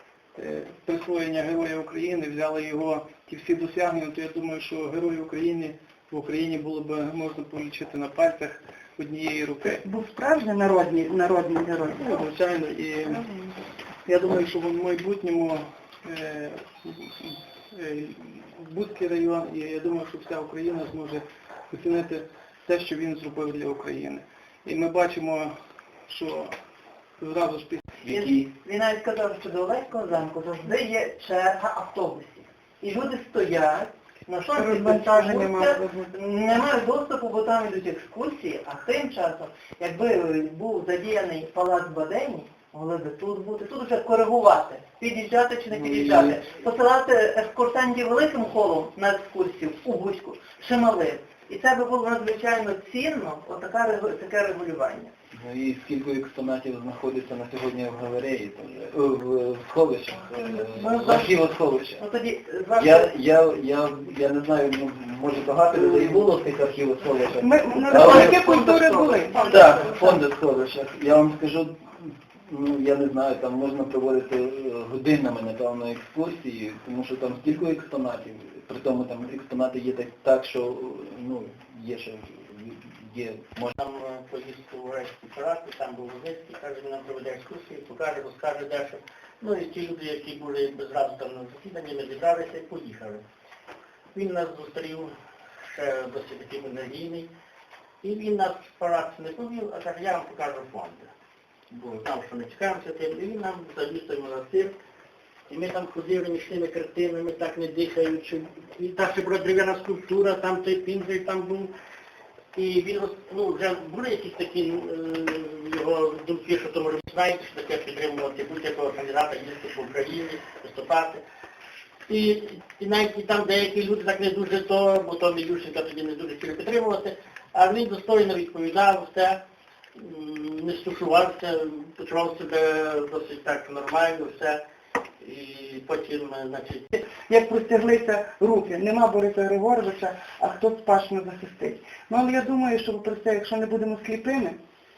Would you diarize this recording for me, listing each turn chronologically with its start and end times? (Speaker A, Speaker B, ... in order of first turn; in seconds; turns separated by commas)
Speaker A: 0.4-9.8, Speaker B: 9.6-12.2, Speaker A: 11.9-13.2, Speaker B: 13.0-13.6, Speaker A: 14.1-25.5, Speaker A: 26.1-26.5, Speaker A: 27.2-28.0, Speaker C: 28.0-28.5, Speaker D: 28.1-55.1, Speaker B: 34.5-36.1, Speaker C: 45.7-46.5, Speaker C: 55.3-62.0, Speaker D: 60.8-61.2, Speaker D: 62.0-62.9, Speaker C: 62.7-83.7, Speaker B: 67.4-69.5, Speaker E: 83.8-93.2, Speaker E: 94.1-95.1, Speaker E: 95.7-97.3, Speaker E: 98.0-101.1, Speaker E: 101.7-104.7, Speaker E: 105.5-111.7, Speaker E: 112.5-121.2, Speaker E: 122.1-129.4, Speaker E: 129.9-134.6, Speaker E: 135.2-136.8, Speaker B: 136.9-144.6